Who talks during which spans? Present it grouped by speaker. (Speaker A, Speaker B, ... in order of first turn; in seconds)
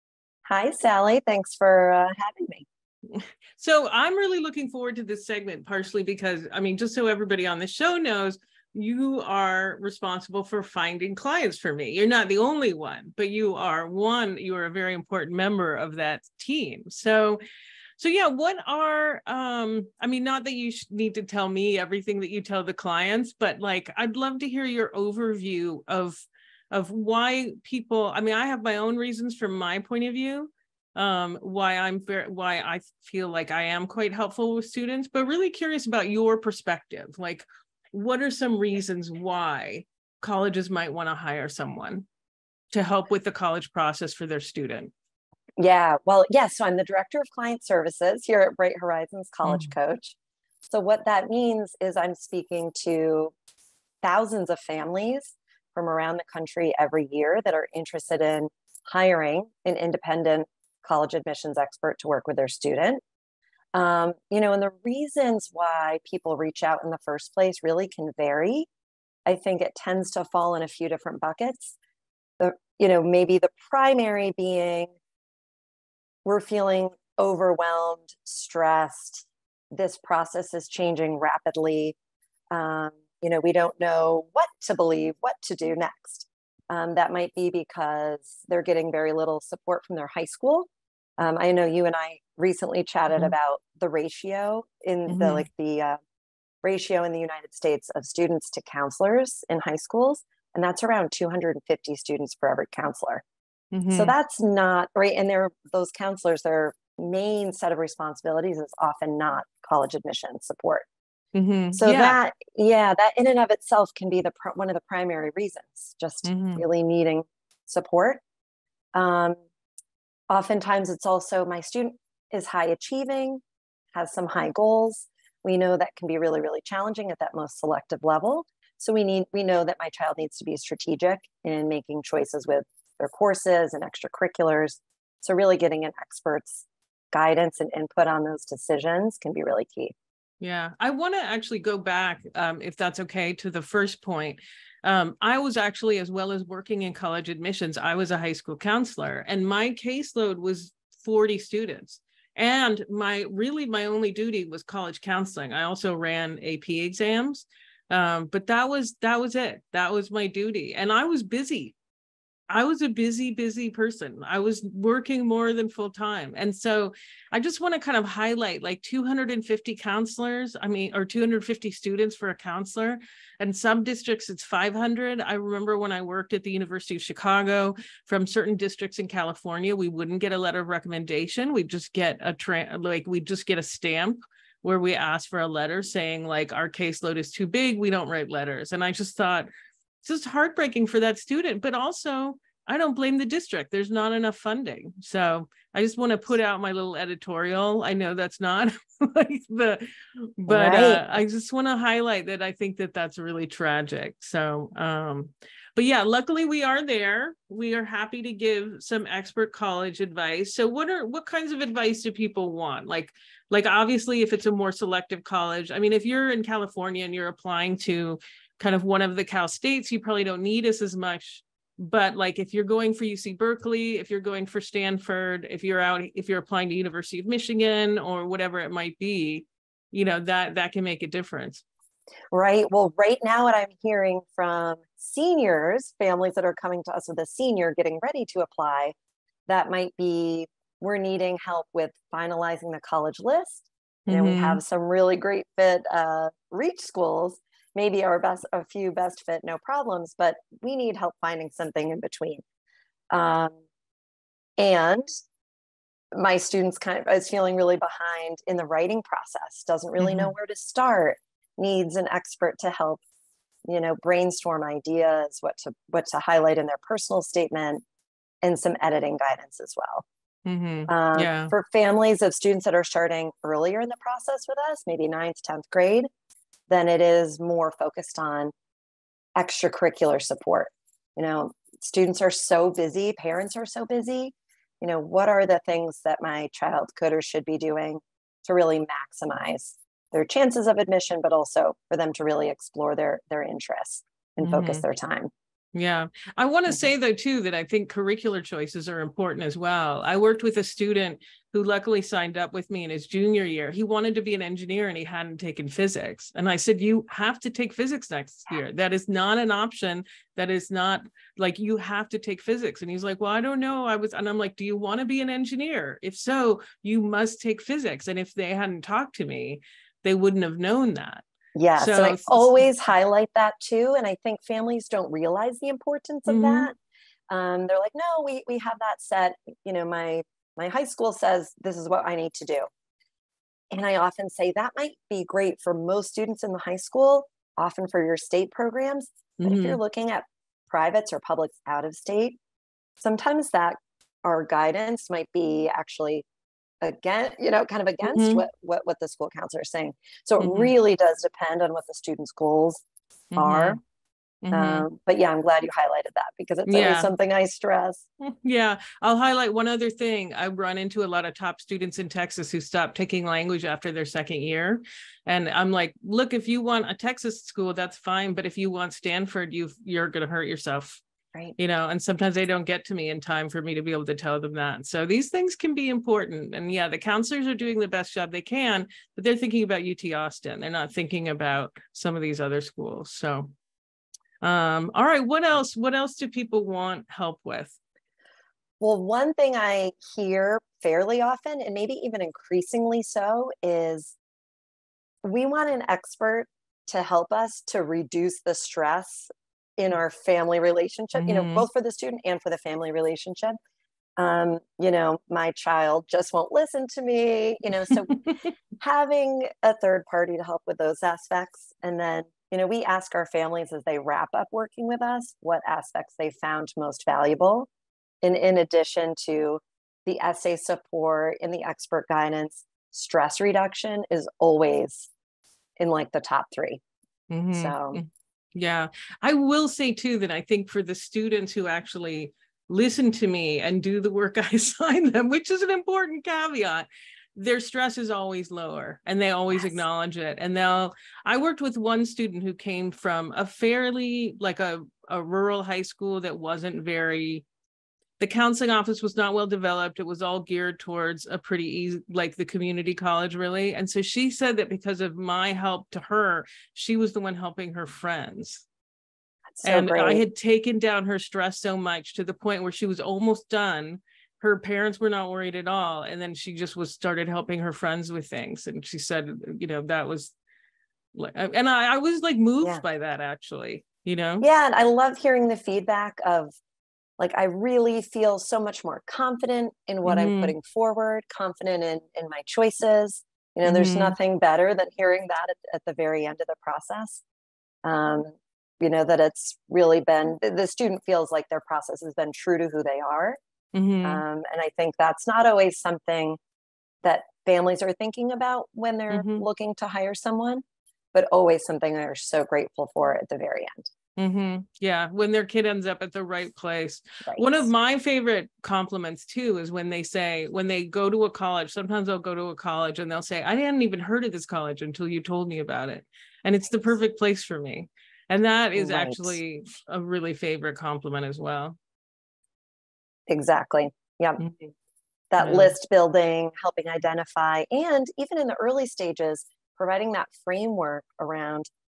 Speaker A: 0.5-2.6, 45.6-50.1, 50.7-53.3, 54.0-63.0, 63.7-68.7, 69.2-71.8, 72.4-75.0, 76.2-81.9, 82.5-96.0, 96.6-103.2, 103.9-110.8, 111.7-118.2, 118.9-119.4, 120.3-123.4, 123.9-139.9, 200.5-201.0, 232.3-238.9, 239.5-252.4, 253.1-253.5, 254.6-255.1, 256.1-263.0, 263.7-267.8, 268.4-270.0, 270.9-276.1, 276.7-278.5, 279.4-295.3, 321.5-326.7, 327.3-332.7, 333.7-342.4, 343.0-346.2, 346.8-352.8, 353.4-353.8, 354.5-358.0, 388.8-394.1, 395.2-403.6, 404.2-408.1, 408.8-417.7, 418.2-425.1, 425.8-426.8, 427.5-428.0, 439.5-439.8, 459.6-460.2, 474.4-476.5, 477.2-487.2, 487.8-493.4, 494.0-496.4, 497.0-500.6, 501.1-503.9, 507.2-507.7, 518.7-519.4, 523.3-524.4, 525.3-531.7
Speaker B: 3.1-17.4, 18.0-42.0, 42.7-44.9, 49.4-49.7, 95.1-95.5, 103.7-104.1, 111.3-112.2, 116.2-116.6, 140.4-161.7, 162.5-189.5, 190.0-231.6, 244.1-244.6, 260.0-260.3, 270.4-271.5, 294.4-294.8, 295.7-322.7, 326.2-326.7, 339.4-339.8, 348.0-348.4, 350.4-350.7, 353.3-353.8, 354.4-354.9, 356.7-357.1, 358.2-371.0, 371.6-383.5, 384.4-387.8, 401.1-401.6, 427.3-447.4, 448.2-458.6, 459.6-470.3, 471.1-474.4, 480.0-480.6, 483.6-484.1, 493.7-494.2, 499.1-499.4, 504.2-521.8, 524.4-524.7, 525.4-525.7